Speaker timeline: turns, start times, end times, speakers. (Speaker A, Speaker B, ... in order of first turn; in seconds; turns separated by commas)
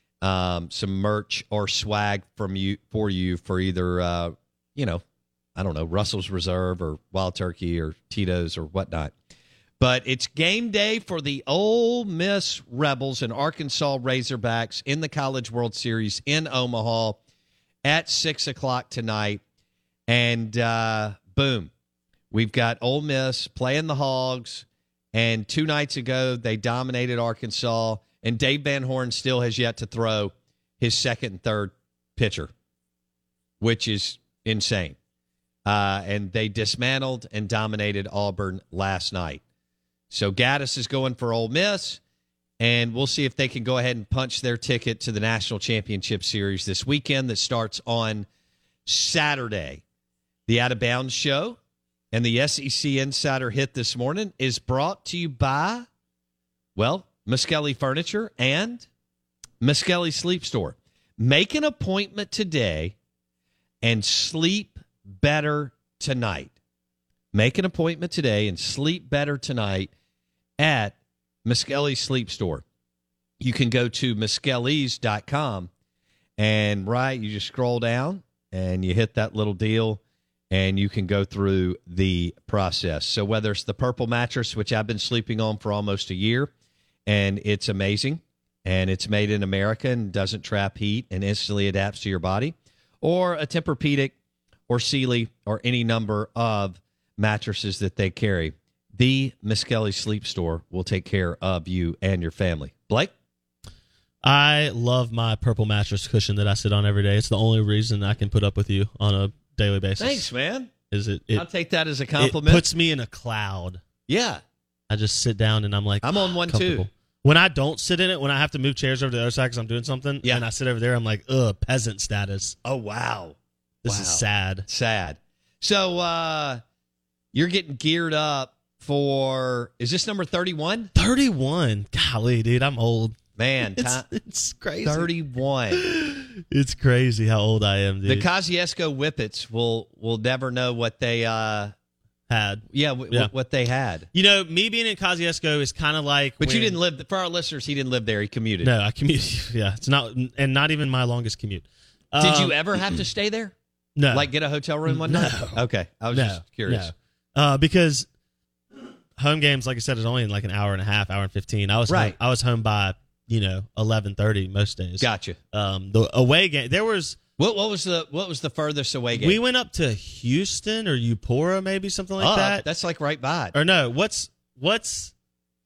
Speaker A: 0.2-5.0, Speaker A: 5.5-9.1, Speaker A: 9.8-17.2, Speaker A: 17.8-19.4, Speaker A: 20.1-21.7, Speaker A: 22.3-32.5, Speaker A: 33.6-35.0, Speaker A: 35.6-39.4, Speaker A: 40.1-42.0, Speaker A: 42.6-48.3, Speaker A: 48.9-49.8, Speaker A: 50.5-51.6, Speaker A: 52.1-55.9, Speaker A: 56.8-58.9, Speaker A: 59.6-63.0, Speaker A: 63.8-66.5, Speaker A: 67.3-69.9, Speaker A: 70.6-72.6, Speaker A: 73.4-75.7, Speaker A: 76.4-86.5, Speaker A: 87.1-94.1, Speaker A: 94.7-103.1, Speaker B: 104.2-110.3, Speaker A: 110.0-110.7, Speaker B: 110.9-111.5, Speaker A: 111.3-112.7, Speaker B: 112.2-113.8, Speaker A: 114.1-114.4, Speaker B: 114.9-122.6, Speaker A: 116.0-116.9, Speaker A: 122.6-126.6, Speaker B: 123.8-124.7, Speaker A: 127.3-130.9, Speaker B: 130.9-135.1, Speaker A: 133.4-134.1, Speaker A: 134.8-135.9, Speaker B: 135.7-138.3, Speaker A: 138.1-141.7, Speaker B: 142.3-143.3, Speaker A: 142.7-144.1, Speaker B: 144.1-146.8, Speaker A: 146.4-148.7, Speaker B: 148.6-152.6, Speaker A: 152.2-153.5, Speaker B: 154.0-154.3, Speaker A: 154.1-156.9, Speaker B: 154.9-158.1, Speaker B: 159.2-167.2, Speaker A: 161.9-162.2, Speaker A: 165.0-165.4, Speaker A: 167.4-169.4, Speaker B: 169.1-172.7, Speaker A: 172.2-173.6, Speaker B: 173.5-175.1